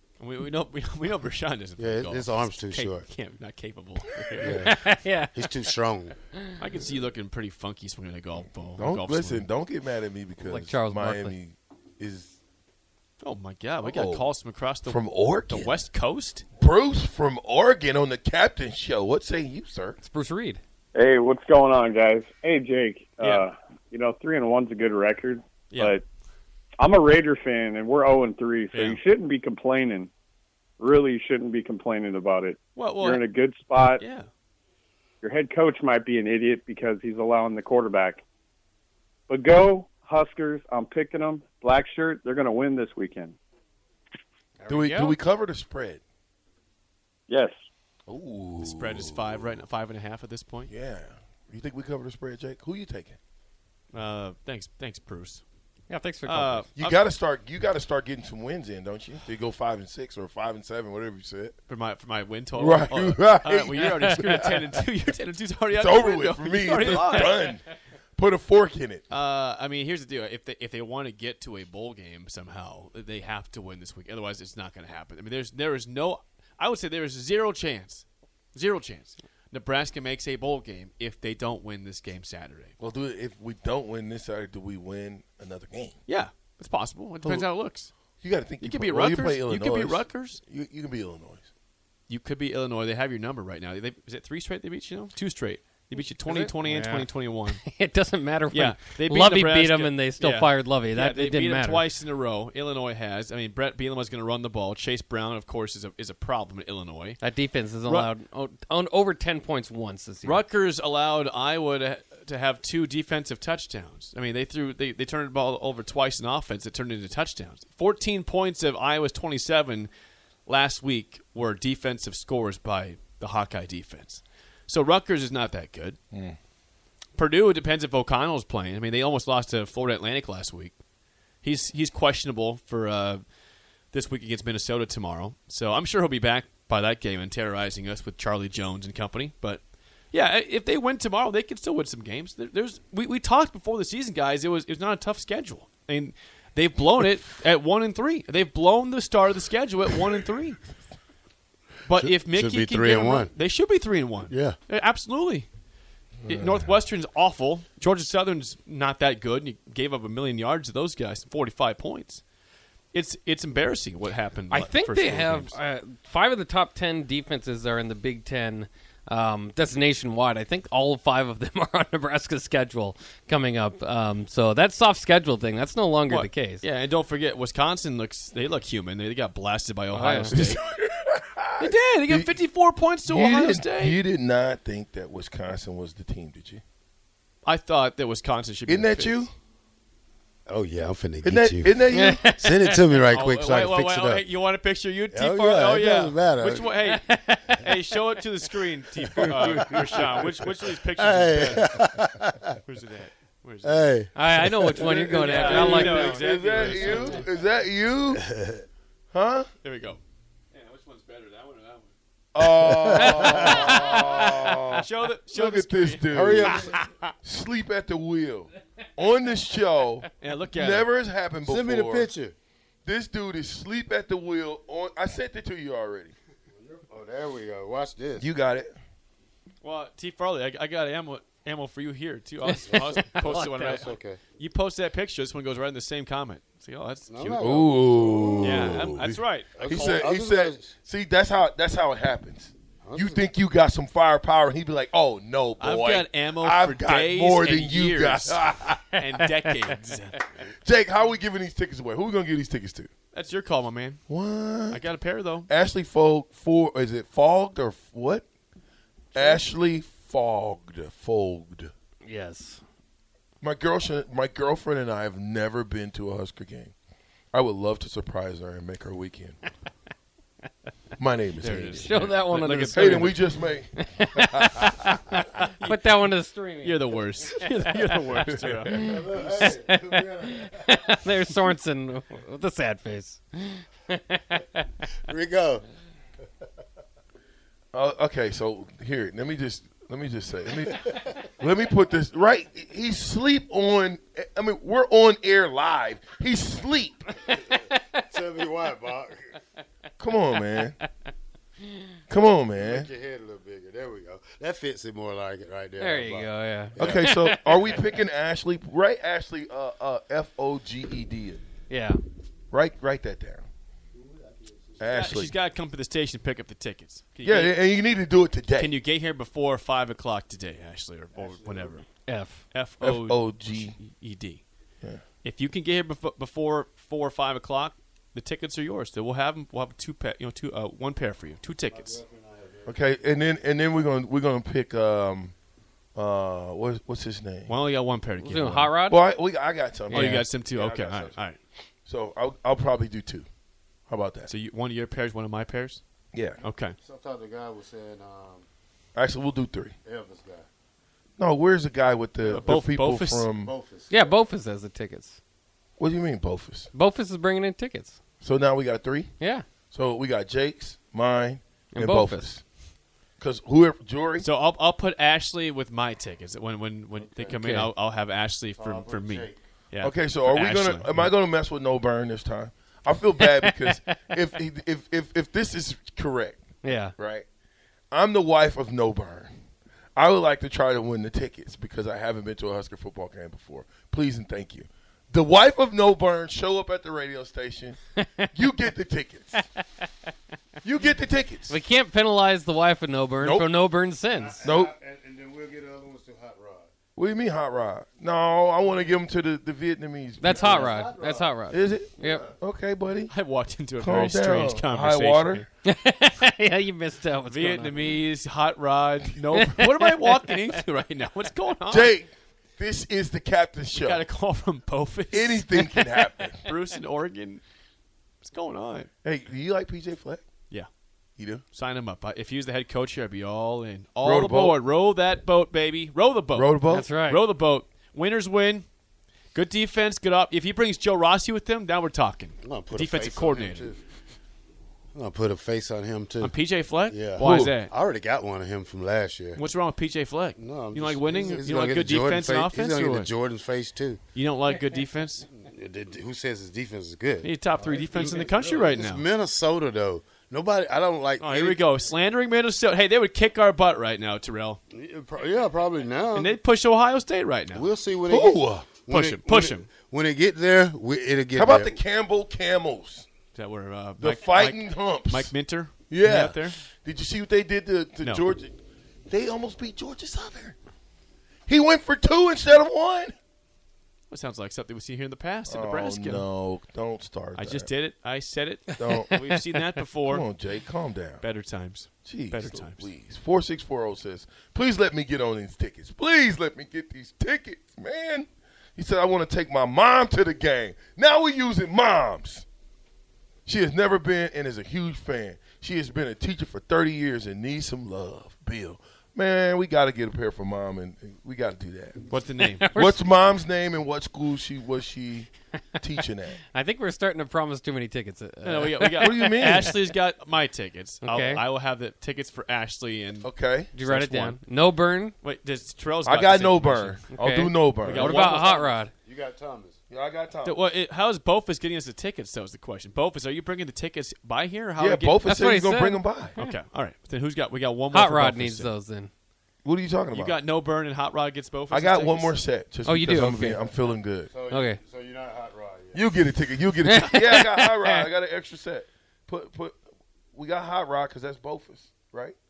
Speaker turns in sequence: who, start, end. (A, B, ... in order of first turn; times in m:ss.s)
0:00.2-0:04.7 A
0:01.8-0:03.1 B
0:04.4-0:04.8 B
0:04.5-0:06.6 C
0:05.3-0:06.2 B
0:06.6-0:09.5 A
0:08.8-0:12.4 D
0:10.4-0:11.3 C
0:13.2-0:16.4 A
0:13.8-0:14.3 D
0:14.8-0:15.8 D
0:16.6-0:20.0 D
0:20.0-0:20.6 C
0:20.9-0:26.0 E
0:23.2-0:23.4 A
0:25.7-0:25.9 A
0:26.8-0:30.1 E
0:28.7-0:29.0 A
0:30.8-0:34.0 E
0:32.8-0:33.2 A
0:33.8-0:34.3 A
0:35.2-0:38.2 E
0:39.3-0:43.4 E
0:44.6-0:45.1 C
0:44.7-0:46.0 D
0:47.3-0:47.5 E
0:48.1-0:49.5 D
0:48.6-0:50.7 A
0:50.7-0:53.2 D
0:53.9-0:55.4 A
0:55.9-0:56.6 C
0:56.2-0:57.1 A
0:56.8-1:01.6 D
1:01.7-1:07.5 A
1:02.5-1:04.6 D
1:05.7-1:07.6 D
1:08.2-1:09.0 D
1:09.1-1:22.8 A
1:22.8-1:26.0 D
1:26.1-1:27.9 A
1:28.2-1:31.5 D
1:28.6-1:30.4 A
1:32.1-1:37.6 A
1:36.0-1:41.8 C
1:38.5-1:47.2 A
1:47.2-1:50.4 C
1:47.8-1:48.1 A
1:50.2-1:59.9 A
2:00.4-2:06.0 A
2:06.1-2:06.4 D
2:07.2-2:10.8 A
2:11.4-2:13.2 A
2:13.9-2:30.6 A
2:31.8-2:35.5 A
2:32.0-2:33.3 B
2:34.3-2:34.6 B
2:36.2-2:36.7 D
2:36.3-2:42.2 A
2:42.9-2:45.6 A
2:44.5-2:56.6 C
2:56.1-3:00.6 A
2:59.9-3:00.3 C
3:00.3-3:02.3 D
3:01.6-3:04.0 A
3:03.0-3:06.6 D
3:07.4-3:09.3 A
3:08.7-3:09.3 D
3:10.5-3:14.2 B
3:11.2-3:12.3 D
3:11.9-3:13.0 C
3:13.1-3:21.8 A
3:15.1-3:16.7 B
3:16.8-3:17.6 C
3:19.2-3:22.6 B
3:19.4-3:20.4 D
3:22.6-3:27.2 A
3:23.6-3:25.4 B
3:24.1-3:26.7 C
3:24.8-3:28.2 D
3:28.1-3:28.6 B
3:29.1-3:29.5 D
3:29.6-3:30.0 A
3:30.5-3:31.9 A
3:32.3-3:36.6 D
3:32.5-3:33.7 B
3:33.0-3:36.9 A
3:33.9-3:34.5 C
3:36.1-3:36.8 B
3:37.2-3:42.1 D
3:40.2-3:40.9 A
3:41.4-3:42.4 B
3:42.9-3:46.1 D
3:46.5-3:48.3 B
3:48.2-3:48.7 D
3:49.6-3:57.6 A
3:52.4-3:53.9 C
3:52.5-3:54.2 B
3:57.1-4:00.7 B
3:57.4-3:59.1 D
3:58.4-4:00.0 A
3:59.6-4:08.9 D
4:02.8-4:03.3 B
4:05.6-4:08.4 A
4:09.0-4:10.4 A
4:10.6-4:12.9 D
4:13.1-4:14.0 A
4:14.1-4:14.8 D
4:14.7-4:15.5 A
4:15.5-4:18.2 D
4:19.1-4:21.7 D
4:22.0-4:22.6 C
4:23.4-4:26.8 D
4:27.3-4:29.4 D
4:31.0-4:31.9 D
4:31.4-4:33.2 A
4:31.7-4:33.2 C
4:32.7-4:34.7 D
4:33.7-4:38.2 C
4:35.6-4:36.0 A
4:36.6-4:38.8 A
4:38.2-4:38.6 D
4:38.7-4:44.7 C
4:38.8-4:40.9 B
4:45.1-4:45.6 B
4:47.7-4:57.3 D
4:57.5-4:59.4 B
4:57.6-4:58.0 C
5:00.0-5:00.8 D
5:02.1-5:02.9 D
5:02.6-5:07.0 B
5:05.8-5:07.8 C
5:06.8-5:11.4 D
5:11.7-5:12.0 C
5:12.5-5:13.5 D
5:14.0-5:14.9 B
5:14.8-5:15.4 D
5:14.9-5:17.6 A
5:17.2-5:18.7 D
5:18.6-5:21.9 A
5:21.1-5:21.8 B
5:22.0-5:22.4 C
5:22.5-5:24.4 A
5:22.8-5:23.8 D
5:25.2-5:32.0 A
5:31.7-5:32.8 B
5:32.6-5:35.4 D
5:35.9-5:37.5 D
5:37.5-5:38.7 A
5:38.2-5:39.0 C
5:38.9-5:41.2 D
5:39.9-5:40.2 C
5:39.9-5:41.4 A
5:41.8-5:43.2 D
5:43.9-5:44.3 D
5:44.2-5:45.8 A
5:46.1-5:46.4 D
5:46.4-5:46.8 A
5:46.8-5:48.4 B
5:49.0-5:49.8 D
5:49.8-5:50.5 B
5:51.2-5:53.5 D
5:52.2-5:53.3 A
5:53.4-5:54.1 B
5:53.9-5:55.2 C
5:55.8-5:56.7 D
5:56.7-5:58.0 C
5:58.2-5:59.1 D
5:59.2-5:59.4 C
5:59.7-6:02.4 D
6:01.7-6:02.3 C
6:03.2-6:04.2 D
6:04.2-6:11.1 A
6:07.0-6:07.4 B
6:07.3-6:07.7 C
6:08.6-6:09.4 B
6:09.8-6:17.2 D
6:16.6-6:16.9 C
6:17.9-6:19.3 D
6:20.0-6:27.8 D
6:28.3-6:29.4 D
6:30.6-6:31.6 D
6:31.5-6:34.4 C
6:33.2-6:33.5 D
6:34.1-6:36.7 B
6:34.4-6:34.7 D
6:37.0-6:40.8 D
6:40.2-6:42.2 C
6:40.3-6:41.4 B
6:41.5-6:43.1 D
6:43.1-6:45.5 A
6:43.8-6:45.4 D
6:45.6-6:48.0 C
6:47.2-6:51.9 A
6:49.3-6:49.9 C
6:51.7-6:54.0 D
6:53.7-6:55.9 A
6:55.1-6:56.4 D
6:56.4-6:57.4 A
6:58.2-6:58.9 A
6:59.0-7:00.2 D
7:01.2-7:01.4 D
7:01.5-7:08.6 A
7:04.0-7:04.6 D
7:06.3-7:06.9 D
7:06.7-7:07.2 C
7:09.3-7:13.7 A
7:12.4-7:13.8 B
7:14.9-7:16.4 B
7:16.2-7:17.7 A
7:16.9-7:19.4 B
7:17.2-7:17.5 D
7:19.4-7:23.1 A
7:20.4-7:24.0 B
7:24.1-7:25.3 A
7:25.3-7:31.6 B
7:27.2-7:29.0 A
7:31.2-7:34.6 A
7:34.7-7:36.4 B
7:36.1-7:37.7 A
7:37.5-7:41.8 B
7:38.1-7:38.7 D
7:38.9-7:39.7 A
7:41.4-7:43.0 D
7:43.4-7:46.6 A
7:44.0-7:45.3 D
7:45.9-7:48.6 D
7:49.1-7:50.6 D
7:51.5-7:53.1 D
7:54.1-7:56.2 A
7:55.5-7:57.7 D
7:57.4-8:00.2 A
7:58.8-7:59.1 D
8:00.1-8:01.2 D
8:01.2-8:02.9 A
8:02.0-8:12.4 D
8:13.4-8:22.0 D
8:22.1-8:22.7 A
8:22.5-8:22.9 C
8:22.8-8:26.4 D
8:26.5-8:29.3 C
8:28.4-8:34.4 A
8:29.0-8:29.7 D
8:31.0-8:31.4 C
8:33.2-8:33.7 D
8:33.7-8:35.1 C
8:35.2-8:37.1 A
8:36.0-8:38.4 D
8:37.1-8:38.9 C
8:37.8-8:38.7 A
8:38.4-8:39.8 B
8:39.9-8:40.6 D
8:40.4-8:45.2 A
8:44.8-8:46.4 D
8:45.2-8:46.5 C
8:46.4-8:48.7 A
8:47.9-8:49.1 C
8:49.6-8:50.4 D
8:50.1-8:52.4 A
8:51.7-8:54.3 D
8:52.8-8:53.7 C
8:54.2-8:56.1 B
8:54.5-8:54.8 C
8:55.9-8:59.8 D
8:56.8-8:58.0 C
9:00.3-9:02.4 D